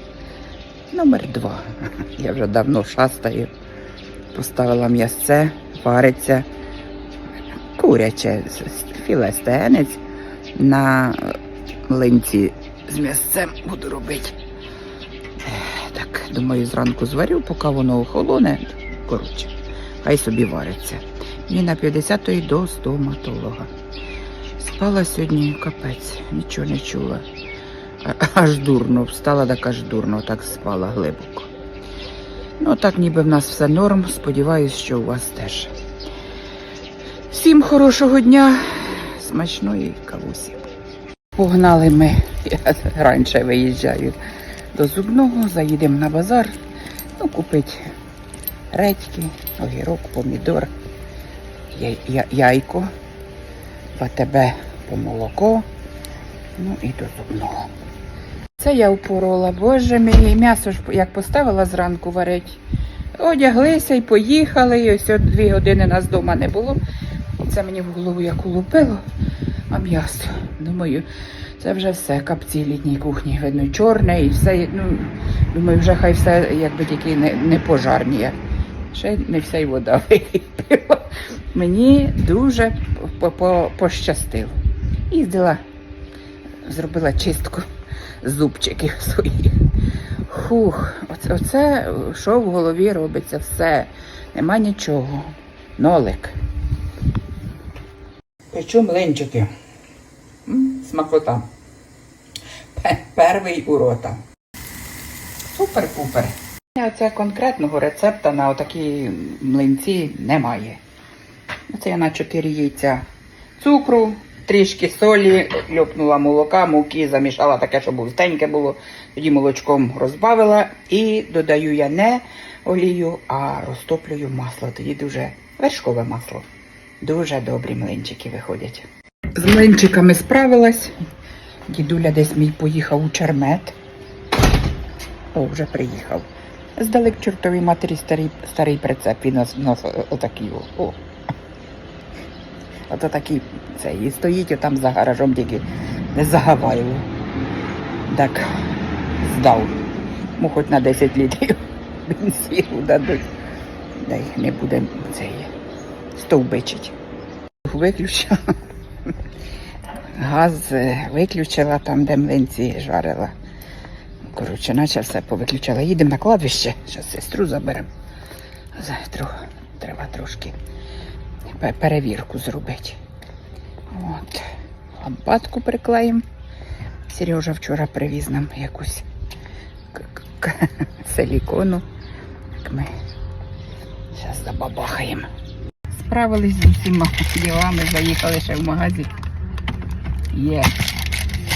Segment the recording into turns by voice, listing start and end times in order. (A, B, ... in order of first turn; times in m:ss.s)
0:00.9-0:03.5 A
0:04.3-0:06.5 A
0:07.7-0:10.0 A
0:10.5-0:14.4 A
0:15.4-0:23.7 A
0:24.6-0:27.2 A
0:28.0-0:31.5 A
0:32.6-0:35.7 A
0:37.3-0:40.6 A
0:41.3-0:44.2 A
0:44.7-0:46.5 A
0:47.2-0:47.9 A
0:48.7-0:50.7 A
0:51.7-0:52.9 A
0:54.0-0:55.6 A
0:56.6-0:57.7 A
0:58.6-1:02.6 A
1:03.2-1:06.8 A
1:07.4-1:09.0 A
1:09.7-1:11.1 A
1:11.6-1:18.4 A
1:18.9-1:24.6 A
1:25.1-1:25.6 A
1:26.6-1:27.7 A
1:28.2-1:29.6 A
1:30.3-1:36.4 A
1:38.5-1:39.5 A
1:40.5-1:41.5 A
1:42.7-1:44.2 A
1:45.5-1:50.8 A
1:51.7-1:53.0 A
1:53.6-2:06.4 A
2:07.0-2:11.0 A
2:11.7-2:13.8 A
2:15.3-2:21.0 A
2:22.9-2:27.1 A
2:28.1-2:28.5 A
2:29.2-2:29.8 A
2:30.4-2:33.2 A
2:34.0-2:35.5 A
2:36.1-2:36.9 A
2:37.6-2:38.4 A
2:40.1-2:43.3 A
2:44.2-2:47.9 A
2:48.7-2:50.6 A
2:51.5-2:53.0 A
2:53.9-2:56.2 A
2:57.1-2:59.1 A
2:59.9-3:01.8 A
3:02.6-3:02.9 A
3:04.1-3:05.3 A
3:05.9-3:09.1 A
3:10.3-3:10.8 A